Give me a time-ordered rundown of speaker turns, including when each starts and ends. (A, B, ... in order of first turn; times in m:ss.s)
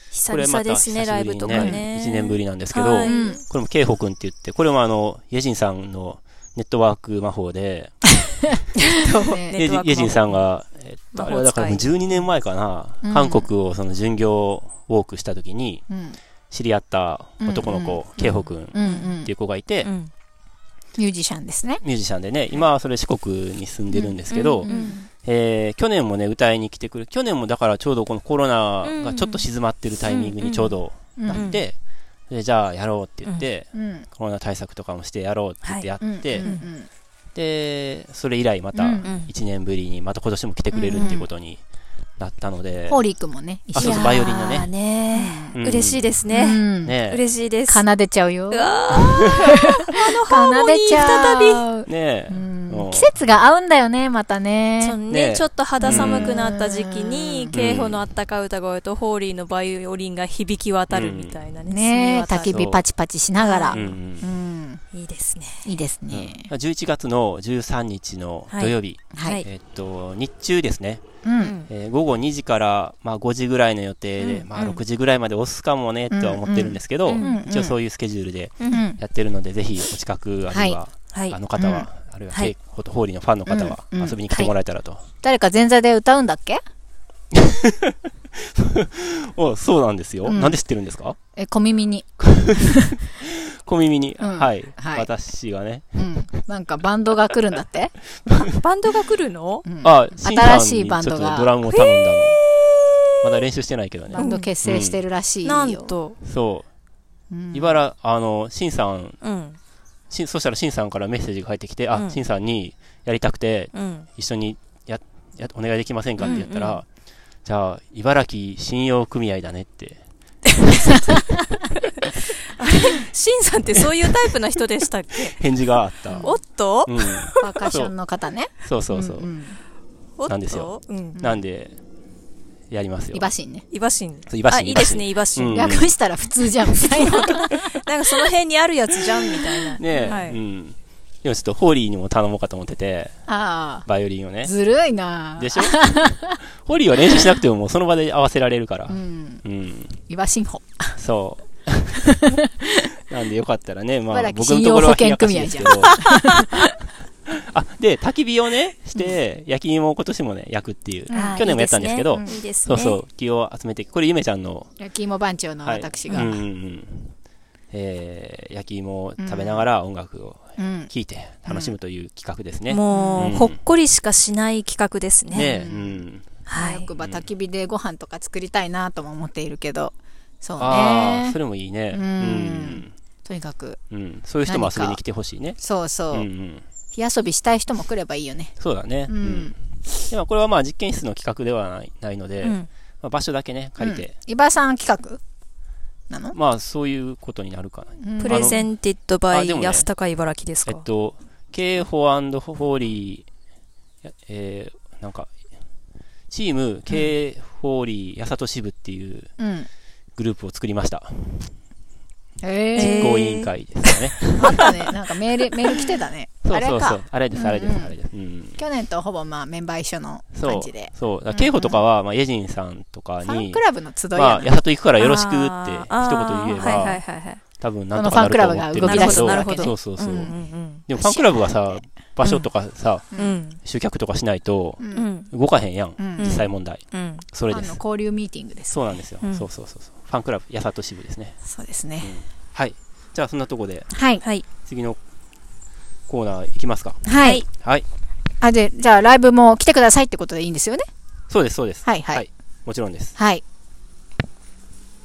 0:00.1-0:03.4 A
0:00.3-0:08.0 B
0:01.5-0:01.8 C
0:03.0-0:03.4 C
0:08.8-0:10.4 A
0:09.2-0:09.6 C
0:09.5-0:15.8 B
0:11.1-0:11.9 A
0:13.0-0:13.5 C
0:15.9-0:16.2 C
0:16.5-0:19.9 B
0:17.4-0:19.3 C
0:18.2-0:19.1 A
0:19.8-0:20.1 A
0:21.0-0:21.8 C
0:21.8-0:24.7 B
0:24.0-0:25.1 A
0:24.6-0:25.0 C
0:25.2-0:31.8 B
0:28.8-0:29.5 A
0:30.1-0:30.7 A
0:31.2-0:31.6 C
0:31.3-0:31.6 A
0:32.3-0:36.5 B
0:33.7-0:34.1 C
0:35.6-0:35.9 A
0:36.0-0:36.9 C
0:36.4-0:36.6 A
0:37.3-0:41.6 B
0:38.7-0:39.1 C
0:39.0-0:39.3 A
0:40.8-0:41.2 C
0:40.9-0:41.2 A
0:42.2-0:43.0 B
0:42.9-0:45.6 C
0:43.7-0:44.7 B
0:43.8-0:47.8 A
0:45.6-0:46.0 B
0:46.3-0:47.0 C
0:46.8-0:47.2 B
0:47.7-0:55.0 C
0:48.5-0:51.6 A
0:51.8-0:53.1 B
0:54.8-1:02.6 A
0:55.1-0:56.4 B
0:55.8-0:57.5 C
0:57.5-0:58.0 B
1:00.9-1:01.4 B
1:01.7-1:04.8 C
1:02.4-1:02.8 B
1:03.4-1:04.0 A
1:03.7-1:04.3 B
1:04.9-1:05.6 A
1:05.6-1:06.5 C
1:06.1-1:11.0 B
1:08.5-1:09.4 A
1:09.1-1:09.4 C
1:11.2-1:11.5 C
1:11.4-1:11.7 A
1:11.7-1:25.0 B
1:14.2-1:14.8 A
1:16.1-1:17.8 C
1:17.1-1:17.3 A
1:18.6-1:18.8 A
1:18.7-1:19.0 C
1:20.5-1:20.8 C
1:21.1-1:21.4 A
1:21.6-1:21.8 C
1:23.5-1:24.2 C
1:25.2-1:26.6 C
1:27.3-1:31.2 B
1:30.2-1:30.6 C
1:31.4-1:33.0 C
1:32.2-1:32.6 B
1:33.2-1:36.2 B
1:34.2-1:35.1 C
1:36.0-1:37.9 C
1:38.5-1:39.6 A
1:39.6-1:41.6 C
1:39.8-1:42.4 B
1:43.2-1:45.0 B
1:44.1-1:45.9 C
1:44.2-1:44.5 A
1:45.4-1:46.2 A
1:46.2-1:46.7 B
1:47.3-1:47.8 C
1:47.5-1:49.2 B
1:49.2-1:49.6 A
1:50.1-1:56.8 B
1:53.7-1:54.1 A
1:56.2-1:56.8 A
1:57.4-2:00.0 B
2:00.7-2:01.4 C
2:02.0-2:07.5 A
2:03.8-2:04.1 B
2:05.3-2:07.9 B
2:06.1-2:06.4 C
2:07.4-2:09.6 C
2:08.6-2:09.3 B
2:10.2-2:11.2 A
2:10.3-2:11.8 B
2:11.1-2:11.4 C
2:12.7-2:13.3 B
2:13.1-2:13.6 C
2:13.7-2:15.6 A
2:14.3-2:15.9 B
2:15.5-2:17.8 C
2:16.7-2:20.4 A
2:19.8-2:23.2 B
2:19.8-2:20.2 C
2:23.3-2:23.8 C
2:23.8-2:24.5 B
2:24.4-2:26.4 C
2:25.4-2:26.0 B
2:26.6-2:30.0 B
2:28.9-2:29.4 C
2:30.1-2:31.0 C
2:31.0-2:32.3 B
2:33.1-2:36.1 B
2:34.1-2:36.6 C
2:37.3-2:44.7 B
2:41.1-2:41.4 C
2:41.1-2:43.0 A
2:42.1-2:42.4 C
2:44.8-2:46.4 C
2:45.6-2:47.1 B
2:47.7-2:53.6 B
2:49.2-2:49.6 C
2:50.6-2:50.9 C
2:51.5-2:51.7 C
2:52.7-2:55.5 A
2:52.9-2:53.4 C
2:55.3-3:01.4 C
2:55.3-2:56.4 B
2:56.4-2:56.9 A
2:57.0-2:57.2 B
3:00.6-3:02.9 B
3:01.9-3:03.8 C
3:03.9-3:05.6 B
3:04.4-3:05.0 C
3:05.6-3:06.3 C
3:06.1-3:06.6 B
3:06.9-3:08.5 C
3:08.6-3:09.6 B
3:09.1-3:09.5 C
3:10.1-3:14.1 B
3:12.4-3:12.7 A
3:13.8-3:15.2 C
3:16.1-3:16.4 C
3:16.3-3:18.6 B
3:18.0-3:18.6 C
3:18.2-3:20.8 A
3:19.3-3:19.9 B
3:20.6-3:23.3 B
3:24.0-3:25.3 B
3:26.3-3:29.3 B
3:29.4-3:29.7 C
3:30.2-3:31.5 B
3:32.4-3:33.2 C
3:32.8-3:33.5 A
3:32.8-3:34.7 B
3:34.3-3:37.9 C
3:36.4-3:38.6 B
3:38.6-3:41.8 C
3:40.3-3:43.6 B
3:43.2-3:44.5 C
3:44.1-3:47.0 B
3:45.0-3:47.4 A
3:47.6-3:50.3 B
3:47.9-3:50.3 C
3:48.8-3:50.8 A
3:50.9-3:57.8 B
3:50.9-3:51.8 C
3:52.2-3:52.5 A
3:53.2-3:53.6 A
3:54.8-3:55.1 C
3:54.9-3:55.3 A
3:56.0-3:56.4 C
3:56.2-3:57.2 A
3:57.5-3:59.0 C
3:58.7-4:01.4 B
4:01.4-4:02.1 C
4:02.0-4:03.9 B
4:03.9-4:04.2 C
4:04.6-4:05.0 B
4:06.1-4:07.0 B
4:07.0-4:07.4 C
4:07.6-4:07.8 B
4:08.4-4:10.8 C
4:11.3-4:13.2 B
4:11.8-4:12.2 C
4:13.2-4:13.4 C